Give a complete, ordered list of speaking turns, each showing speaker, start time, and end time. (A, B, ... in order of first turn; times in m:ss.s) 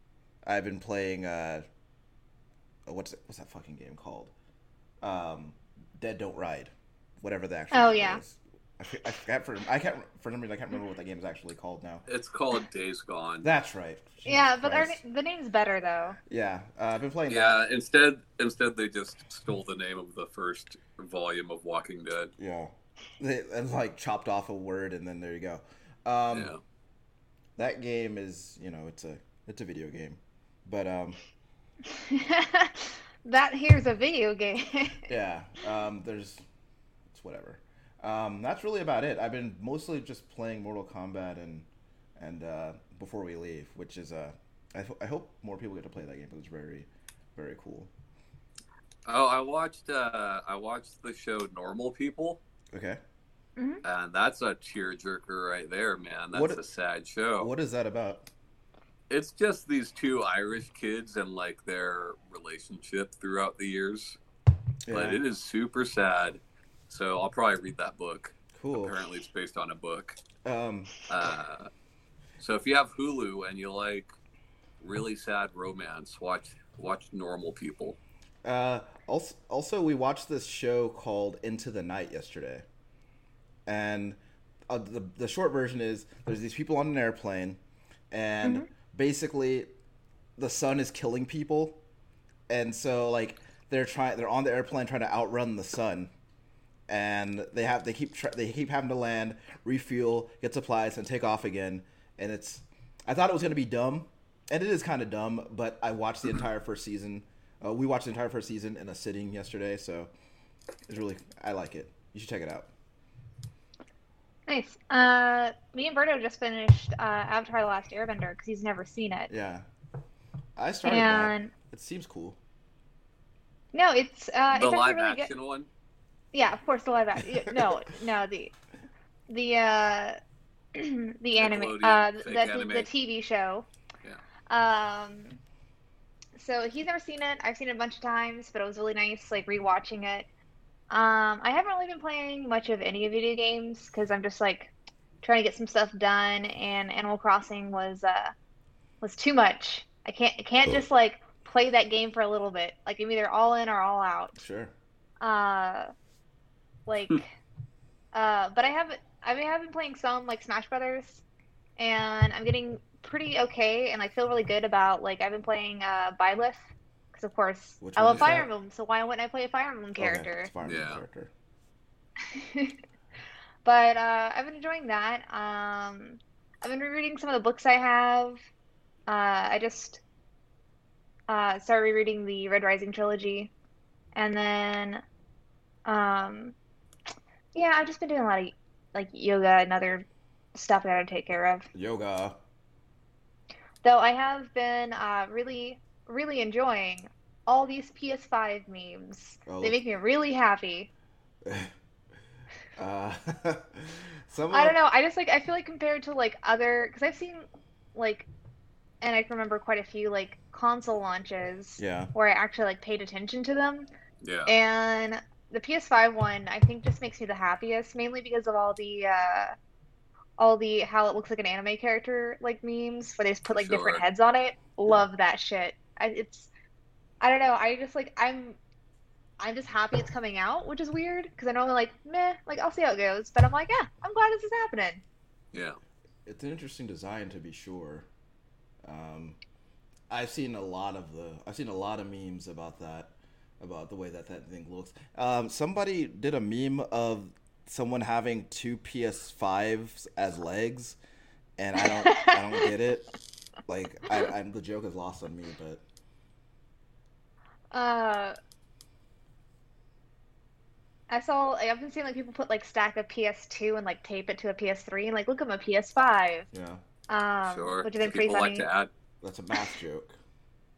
0:00.4-0:01.6 A
0:02.9-0:04.3 A
0:05.0-0:12.0 A
0:07.7-0:08.2 B
0:12.1-0:13.5 C
0:13.4-0:15.0 A
0:14.2-0:16.2 B
0:16.3-0:17.6 A
0:17.3-0:22.3 C
0:22.4-0:26.5 A
0:26.3-0:26.6 C
0:27.6-0:31.2 A
0:31.8-0:35.1 B
0:35.1-0:36.4 A
0:37.1-0:47.9 A
0:49.0-0:52.4 C
0:52.7-0:53.0 A
0:53.6-0:53.8 B
0:53.8-0:57.5 C
0:56.3-0:56.6 A
0:57.4-0:58.3 A
0:59.1-1:04.2 C
1:04.8-1:05.2 A
1:04.9-1:10.2 C
1:08.6-1:09.0 A
1:10.4-1:10.9 A
1:11.1-1:11.7 C
1:12.4-1:14.1 C
1:14.8-1:18.0 C
1:18.4-1:22.6 A
1:23.6-1:24.2 A
1:24.7-1:27.6 A
1:28.1-1:29.7 A
1:28.4-1:28.7 B
1:30.4-1:31.8 A
1:32.5-1:36.1 A
1:36.9-1:50.1 A
1:50.9-1:52.7 A
1:54.5-1:59.3 B
1:59.3-1:59.6 A
2:00.6-2:02.4 A
2:00.8-2:01.5 B
2:03.7-2:05.3 B
2:04.5-2:05.7 C
2:06.3-2:08.5 B
2:07.4-2:07.8 A
2:09.3-2:10.2 B
2:10.7-2:13.7 B
2:11.4-2:12.9 C
2:14.5-2:15.4 B
2:16.4-2:20.3 B
2:20.9-2:28.3 B
2:29.0-2:34.4 B
2:34.4-2:34.7 A
2:35.2-2:35.9 B
2:36.8-2:37.3 B
2:38.1-2:41.2 B
2:41.8-2:46.6 B
2:47.1-2:50.5 B
2:47.8-2:48.5 A
2:50.0-2:51.3 A
2:50.6-2:51.0 C
2:52.3-2:52.8 B
2:53.6-2:58.4 B
2:59.1-3:00.0 B
3:01.3-3:03.5 B
3:04.1-3:05.0 B
3:05.8-3:06.5 B
3:07.5-3:11.7 B
3:11.7-3:12.4 A
3:13.8-3:20.9 B
3:19.5-3:19.8 A
3:21.4-3:21.7 A
3:22.8-3:24.8 A
3:24.5-3:28.3 B
3:29.0-3:33.9 B
3:31.8-3:32.1 A
3:34.2-3:34.5 C
3:34.5-3:39.5 B
3:40.4-3:46.5 B
3:43.6-3:44.0 C
3:47.2-3:48.6 B
3:49.4-3:55.0 B
3:55.5-3:55.8 C
3:56.2-3:58.1 A
3:58.8-3:59.4 A
4:00.1-4:11.0 A
4:11.6-4:13.1 A
4:11.8-4:12.6 B
4:13.7-4:15.8 A
4:17.7-4:18.4 B
4:21.1-4:26.5 B
4:26.5-4:26.8 A
4:27.1-4:28.7 B
4:27.4-4:28.9 C
4:29.2-4:30.2 A